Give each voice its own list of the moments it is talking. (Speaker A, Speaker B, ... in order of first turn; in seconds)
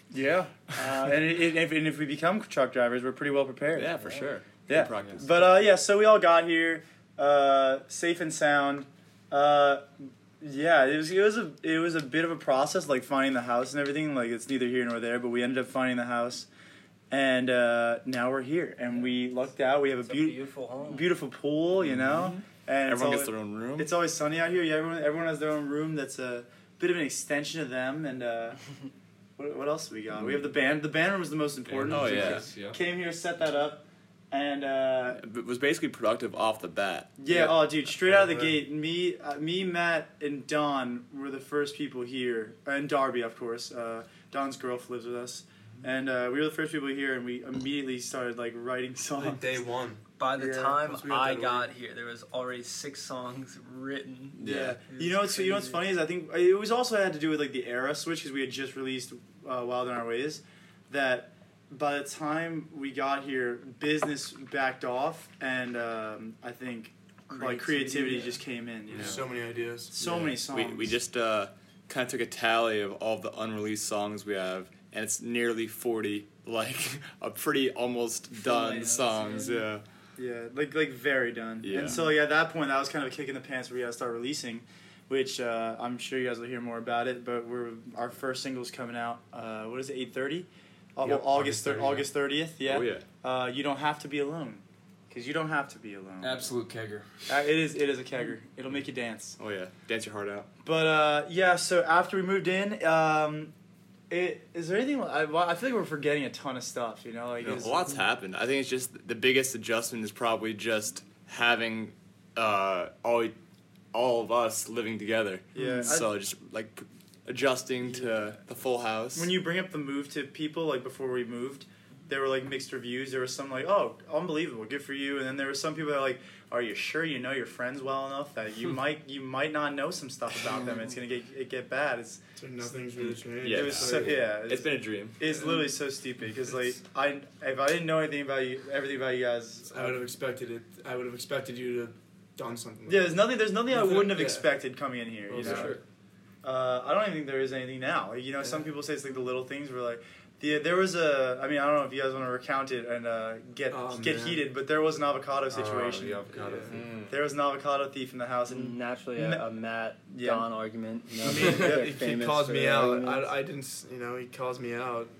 Speaker A: 0.1-4.0, 4.7-9.9, 10.4-16.5, 17.1-28.6, 29.4-35.2, 37.2-49.6, 50.4-50.8, 54.4-69.2, 69.9-70.9, 80.2-96.5, 97.3-99.4, 100.6-103.5, 104.1-108.0, 115.5-116.1, 119.1-132.2, 133.4-140.0, 142.8-145.8, 146.4-156.3, 157.1-159.4, 160.1-160.5, 161.4-161.9
Speaker B: 3.7-5.4, 21.8-23.9, 30.1-30.5, 31.9-32.5, 35.2-38.3, 54.4-54.8, 70.3-79.8, 81.6-82.1, 91.0-91.5, 92.6-93.0, 99.4-100.5, 107.4-113.3, 113.9-119.3, 133.4-135.2, 156.7-157.1
Speaker C: 4.0-4.3, 20.0-21.1, 50.2-55.8, 67.3-68.4, 78.3-79.7, 115.5-115.8, 158.4-163.3
Speaker D: 31.7-32.8, 96.2-97.1, 145.4-145.8, 155.5-156.9
Speaker E: 49.1-50.0, 50.8-51.7, 69.0-70.3, 132.3-134.3, 135.3-135.6, 139.7-144.5, 145.3-145.8, 148.4-148.7, 153.7-154.4, 156.3-156.8, 161.2-165.1